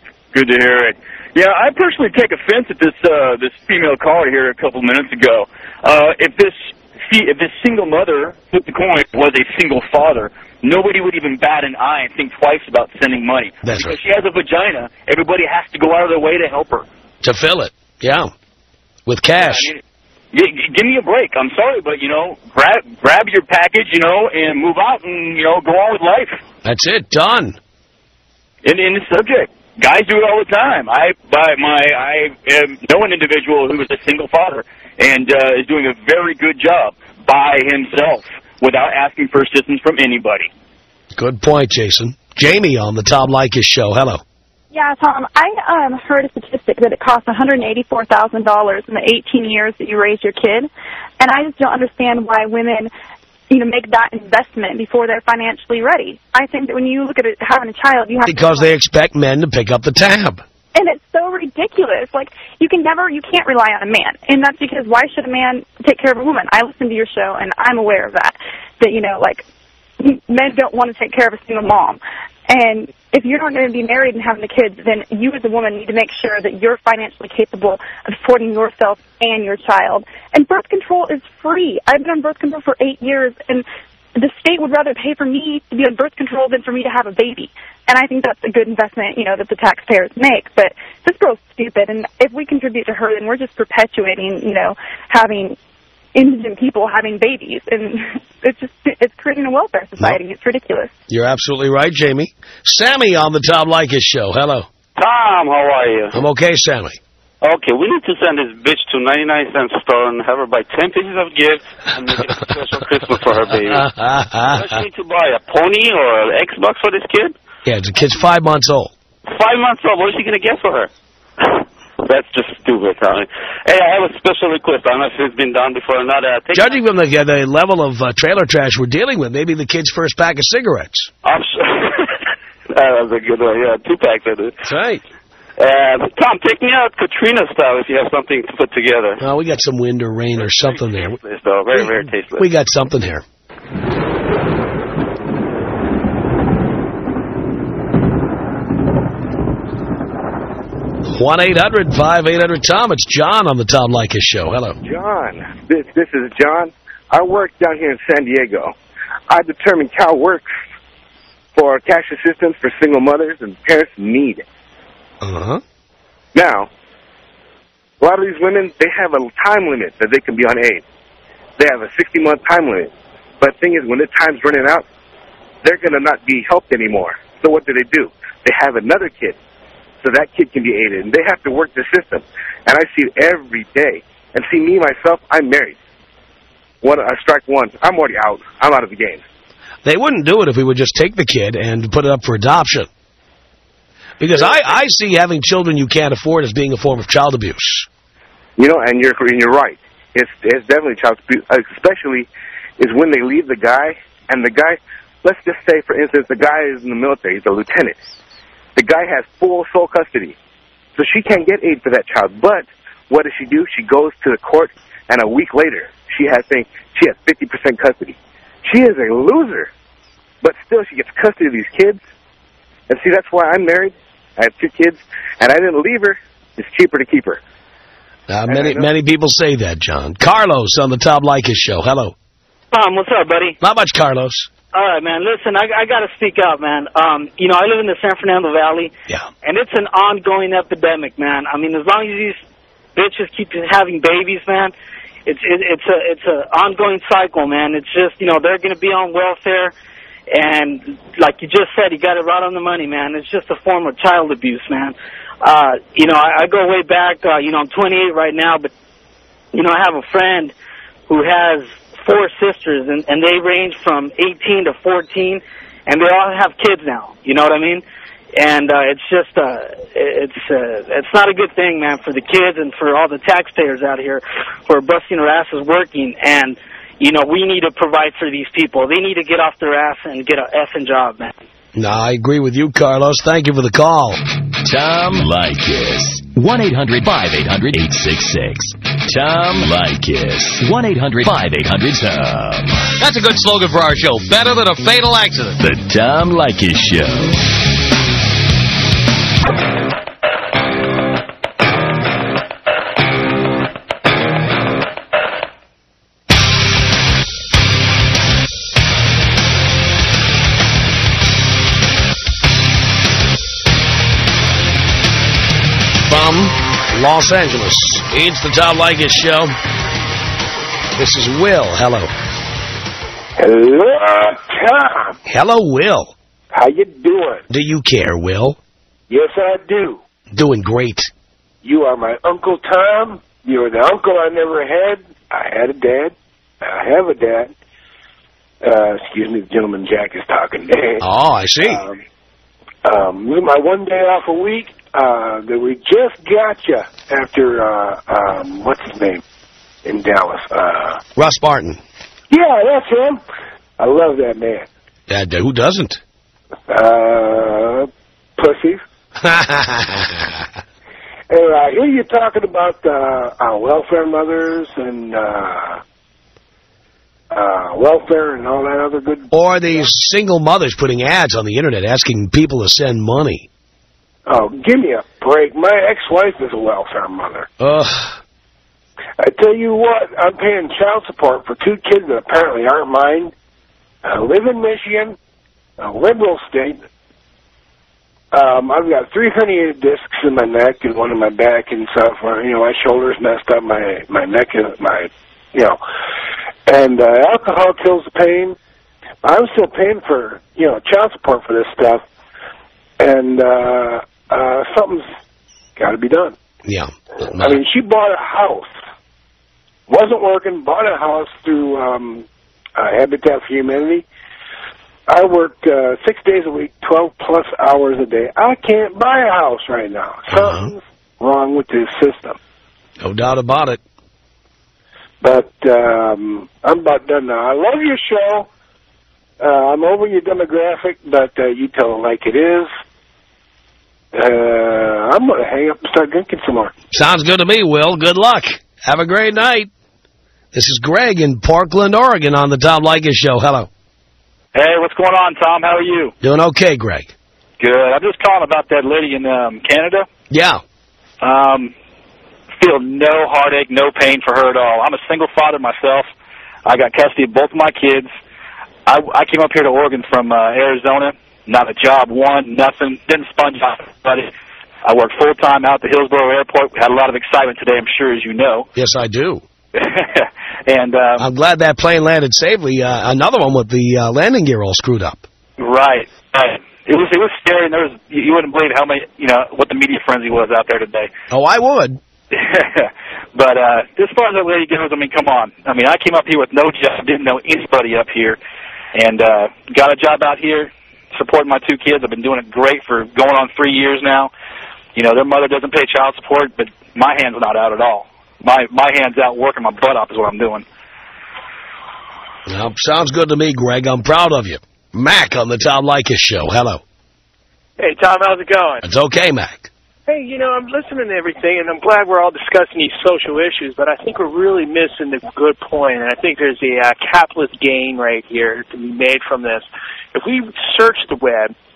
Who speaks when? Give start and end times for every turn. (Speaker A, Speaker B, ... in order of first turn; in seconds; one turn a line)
Speaker A: 0.3-16.9
Speaker B: 13.6-14.0
Speaker B: 17.2-18.3
Speaker B: 19.1-19.7
Speaker A: 19.4-19.8
Speaker A: 20.3-26.4
Speaker B: 26.6-27.6
Speaker A: 28.6-40.5
Speaker B: 41.1-44.2
Speaker C: 44.7-52.9
Speaker C: 53.5-58.7
Speaker B: 58.2-60.4
Speaker C: 60.7-69.5
Speaker C: 70.0-95.6
Speaker C: 96.1-100.9
Speaker B: 101.1-104.7
Speaker D: 105.0-106.2
Speaker B: 106.1-107.0
Speaker D: 107.4-113.9
Speaker B: 113.7-114.8
Speaker D: 114.4-117.4
Speaker B: 117.7-118.9
Speaker D: 119.3-120.9
Speaker D: 121.4-126.8
Speaker B: 126.5-131.1
Speaker D: 131.2-132.1
Speaker D: 132.7-134.6
Speaker B: 134.6-135.0
Speaker D: 135.6-139.2
Speaker B: 139.2-141.2
Speaker D: 140.5-142.4
Speaker B: 141.7-143.2
Speaker B: 151.1-154.8
Speaker E: 154.8-158.7
Speaker E: 159.3-160.5
Speaker E: 161.5-164.4
Speaker B: 165.2-165.6
Speaker E: 166.3-166.7
Speaker E: 168.0-170.8
Speaker E: 171.6-172.9
Speaker E: 173.4-174.9
Speaker E: 175.6-179.4
Speaker E: 180.0-185.8
Speaker E: 186.8-189.2
Speaker B: 189.8-192.9
Speaker B: 194.2-197.9
Speaker E: 194.3-194.6
Speaker E: 198.6-208.0
Speaker E: 208.8-210.4
Speaker E: 211.0-219.7
Speaker E: 220.4-222.0
Speaker E: 222.9-227.4
Speaker B: 228.3-232.2
Speaker E: 228.5-228.9
Speaker F: 232.7-233.6
Speaker B: 233.6-234.5
Speaker F: 234.7-242.4
Speaker F: 242.9-244.7
Speaker F: 245.2-249.7
Speaker F: 250.3-258.7
Speaker F: 259.5-260.5
Speaker F: 261.1-267.8
Speaker F: 268.4-281.3
Speaker B: 281.8-284.2
Speaker G: 284.6-292.9
Speaker H: 293.0-295.6
Speaker G: 295.6-297.4
Speaker B: 316.0-319.5
Speaker B: 321.0-322.1
Speaker I: 323.4-325.1
Speaker B: 325.2-326.1
Speaker I: 326.5-327.4
Speaker B: 327.5-328.6
Speaker I: 329.1-330.0
Speaker B: 330.3-331.1
Speaker I: 331.6-337.5
Speaker I: 338.6-341.0
Speaker B: 341.0-341.8
Speaker I: 341.6-342.0
Speaker I: 342.9-349.2
Speaker I: 349.9-351.0
Speaker B: 351.2-351.8
Speaker I: 352.3-353.2
Speaker I: 353.8-354.7
Speaker B: 355.1-356.0
Speaker I: 356.7-358.8
Speaker B: 359.2-360.4
Speaker I: 361.3-365.8
Speaker I: 367.3-369.3
Speaker B: 369.3-373.5
Speaker I: 374.2-377.5
Speaker B: 377.6-378.2
Speaker I: 379.2-383.3
Speaker I: 384.0-385.2
Speaker I: 385.8-386.8
Speaker I: 388.3-395.8
Speaker I: 396.7-398.6
Speaker I: 399.2-402.0
Speaker I: 403.0-405.1
Speaker I: 405.8-406.4
Speaker B: 406.6-407.6
Speaker I: 407.4-408.7
Speaker I: 409.9-414.1
Speaker I: 415.1-422.4
Speaker B: 420.3-420.7
Speaker B: 423.0-423.8
Speaker I: 425.2-428.5
Speaker I: 429.4-432.7
Speaker I: 434.1-436.7
Speaker B: 436.9-439.7
Speaker B: 440.5-443.7
Speaker J: 444.5-446.1
Speaker B: 446.2-447.1
Speaker J: 447.6-450.1
Speaker B: 450.3-450.6
Speaker J: 451.2-451.7
Speaker J: 452.6-456.1
Speaker J: 456.6-458.1
Speaker J: 458.9-464.3
Speaker J: 464.8-468.7
Speaker B: 468.8-469.4
Speaker J: 469.7-471.2
Speaker B: 471.2-475.2
Speaker J: 475.6-481.1
Speaker B: 481.3-482.0
Speaker J: 482.3-488.4
Speaker J: 488.9-494.3
Speaker J: 494.9-500.6
Speaker B: 502.5-506.8
Speaker K: 507.8-508.8
Speaker B: 508.8-509.7
Speaker K: 510.1-521.5